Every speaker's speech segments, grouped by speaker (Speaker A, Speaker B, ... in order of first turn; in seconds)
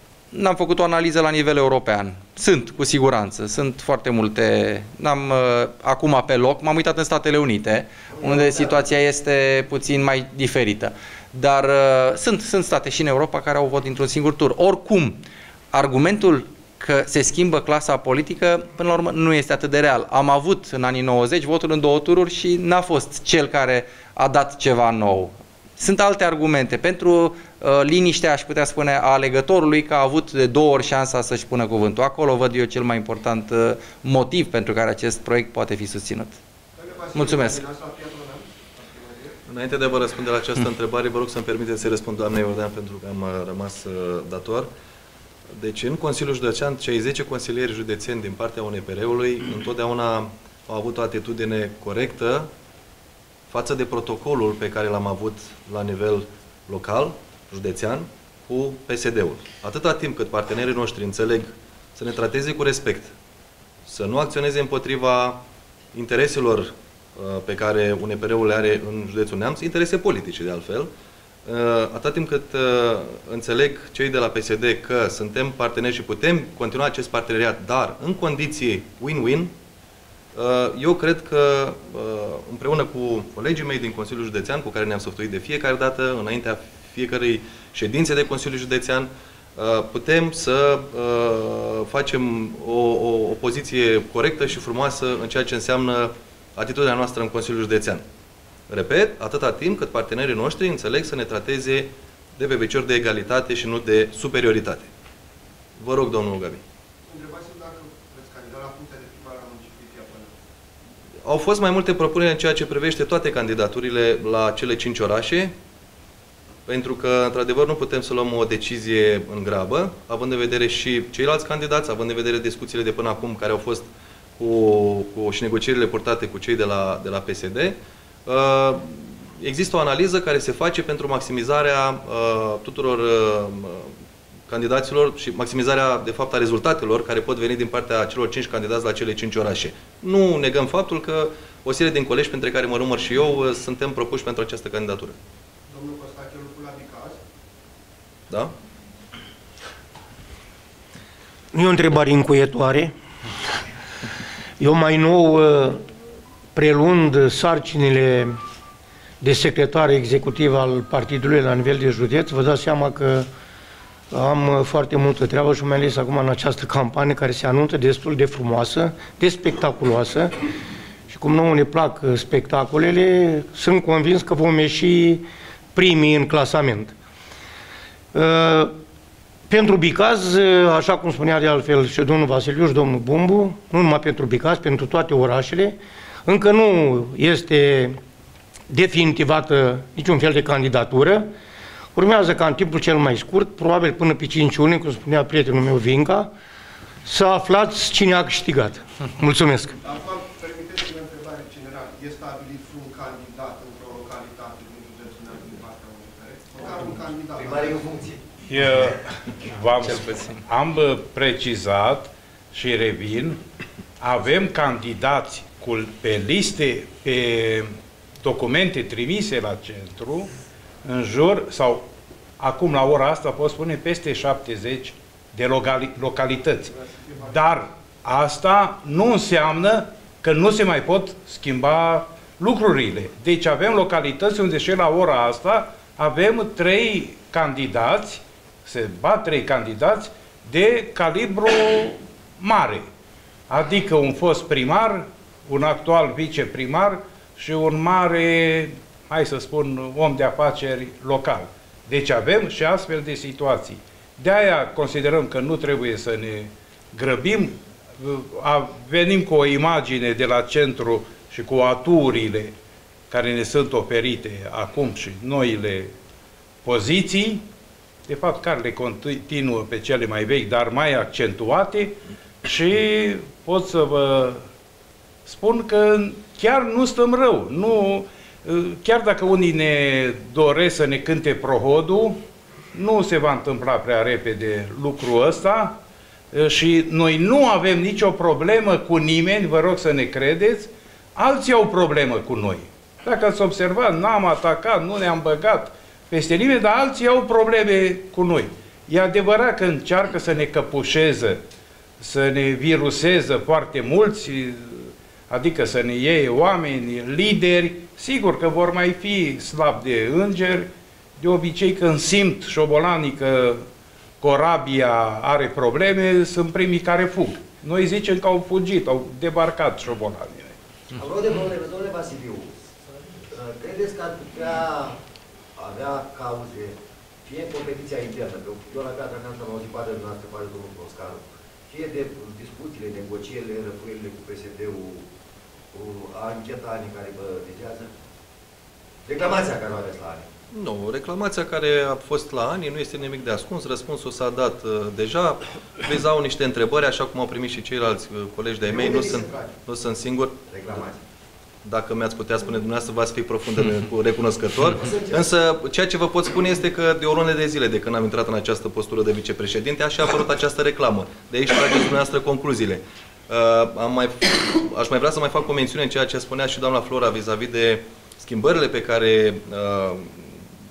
Speaker A: 0.3-36.4, 37.1-37.6, 210.0-210.4
Speaker B: 8.1-8.8, 206.6-208.2, 320.9-322.6, 323.2-325.0, 325.6-335.1, 335.7-337.9, 339.1-340.3, 348.7-349.5, 350.4-351.0, 354.7-355.3
Speaker C: 36.7-39.4, 107.0-110.3, 145.7-147.2, 199.8-207.9, 226.7-227.6
Speaker D: 39.5-44.7, 45.5-52.5, 53.5-63.1, 63.9-65.4, 65.9-70.9, 71.5-79.5, 80.3-98.0, 98.7-104.9, 105.8-106.6, 111.2-115.5, 116.7-133.9, 134.5-145.2, 340.5-350.4, 351.6-370.4
Speaker E: 151.5-152.9, 154.6-155.8, 156.5-158.4, 159.2-163.3, 164.1-170.5, 171.1-176.9, 178.1-178.7, 179.5-188.0, 188.7-191.3, 191.9-196.3, 197.0-199.8
Speaker F: 208.5-213.4, 214.0-220.3, 220.8-221.9, 222.4-226.7, 227.2-242.9, 243.5-262.5, 263.1-265.9, 266.6-267.4, 268.1-274.4, 275.2-282.2, 282.7-285.8, 286.3-301.4, 302.0-313.6, 314.2-320.6